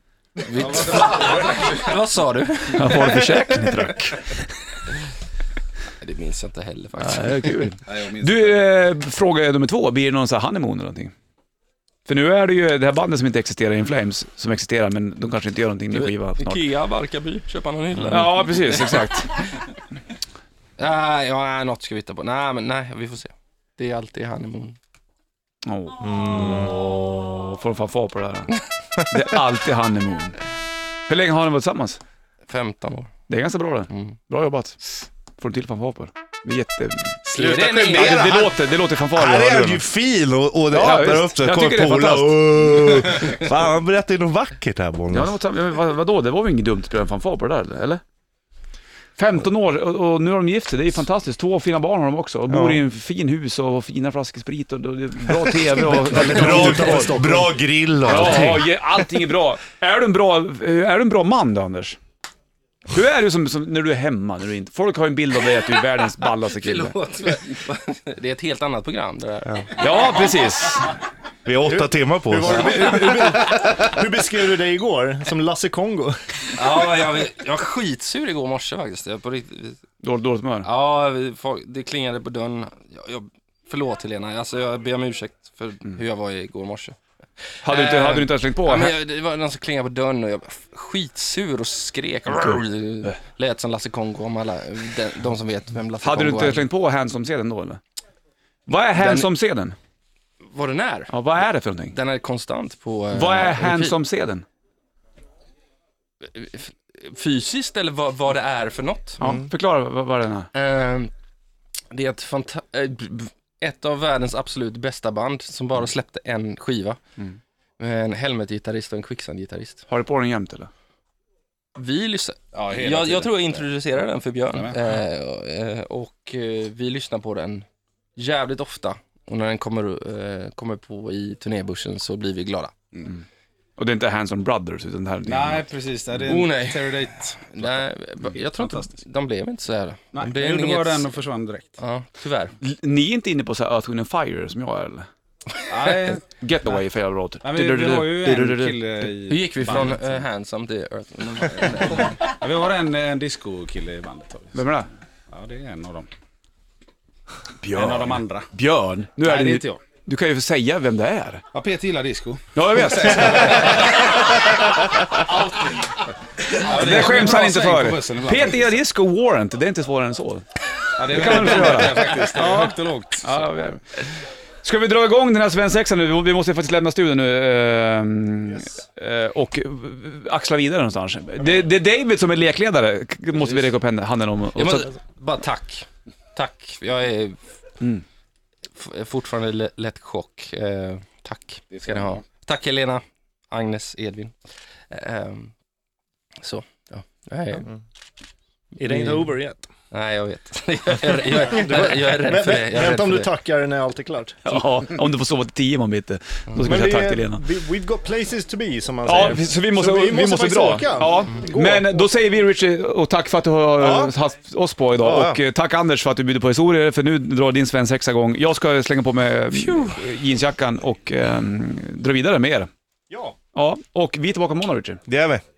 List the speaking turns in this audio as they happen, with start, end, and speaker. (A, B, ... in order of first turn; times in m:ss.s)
0:00.4-0:03.9 A
0:00.6-0:01.7 B
0:02.7-0:04.5 C
0:06.0-0:07.7 A
0:07.0-0:11.1 C
0:07.9-0:08.6 B
0:12.1-0:16.6 C
0:15.9-0:19.1 A
0:18.0-0:19.4 C
0:20.8-0:24.8 A
0:25.6-0:30.4 C
0:26.0-0:26.8 D
0:31.1-0:32.0 C
0:32.5-0:33.1 A
0:33.3-0:34.8 C
0:35.4-0:39.8 C
0:37.2-0:38.4 A
0:37.4-0:45.3 D
0:40.7-0:43.4 C
0:45.1-0:48.0 C
0:49.2-0:57.1 C
0:52.5-0:52.8 D
0:56.0-0:57.5 E
0:56.1-0:58.7 D
0:58.1-1:02.0 C
1:02.9-1:06.9 C
1:06.5-1:10.1 A
1:09.8-1:10.9 C
1:11.4-1:12.9 D
1:11.6-1:16.2 E
1:16.5-1:19.8 A
1:20.0-1:20.7 C
1:20.6-1:27.0 A
1:27.6-1:36.6 A
1:27.6-1:28.9 C
1:36.0-1:37.8 C
1:38.7-1:39.8 C
1:39.0-1:39.3 A
1:40.4-1:41.1 A
1:41.1-1:41.9 C
1:41.9-1:44.0 A
1:43.1-1:44.4 C
1:46.2-1:49.3 A
1:49.2-1:50.5 C
1:50.5-1:51.1 A
1:51.9-1:57.0 A
1:57.8-1:59.9 A
1:59.9-2:00.7 C
2:01.8-2:12.7 A
2:02.5-2:03.5 B
2:04.5-2:04.8 B
2:13.8-2:15.7 C
2:15.2-2:19.0 B
2:16.2-2:21.1 A
2:20.1-2:21.8 B
2:21.8-2:22.5 A
2:22.6-2:25.1 C
2:25.7-2:26.2 B
2:25.8-2:26.2 A
2:26.4-2:28.8 C
2:27.4-2:30.0 B
2:29.3-2:32.2 A
2:32.2-2:34.6 B
2:34.5-2:34.9 C
2:35.3-2:36.1 B
2:37.6-2:41.4 C
2:37.7-2:38.5 B
2:39.2-2:39.8 B
2:41.5-2:44.0 B
2:42.5-2:44.0 C
2:46.5-2:48.7 B
2:46.6-2:50.4 C
2:51.0-2:53.2 B
2:51.0-2:54.1 C
2:54.6-3:04.9 C
3:04.5-3:07.4 A
3:08.8-3:14.4 A
3:11.7-3:12.2 B
3:14.9-3:15.5 A
3:16.4-3:17.6 A
3:18.8-3:19.7 E
3:18.9-3:19.3 A
3:19.9-3:23.3 A
3:21.4-3:24.4 E
3:24.4-3:27.4 C
3:26.6-3:32.0 E
3:29.0-3:42.7 C
3:33.8-3:34.1 E
3:39.5-3:40.0 A
3:43.5-3:45.0 C
3:45.1-3:45.4 D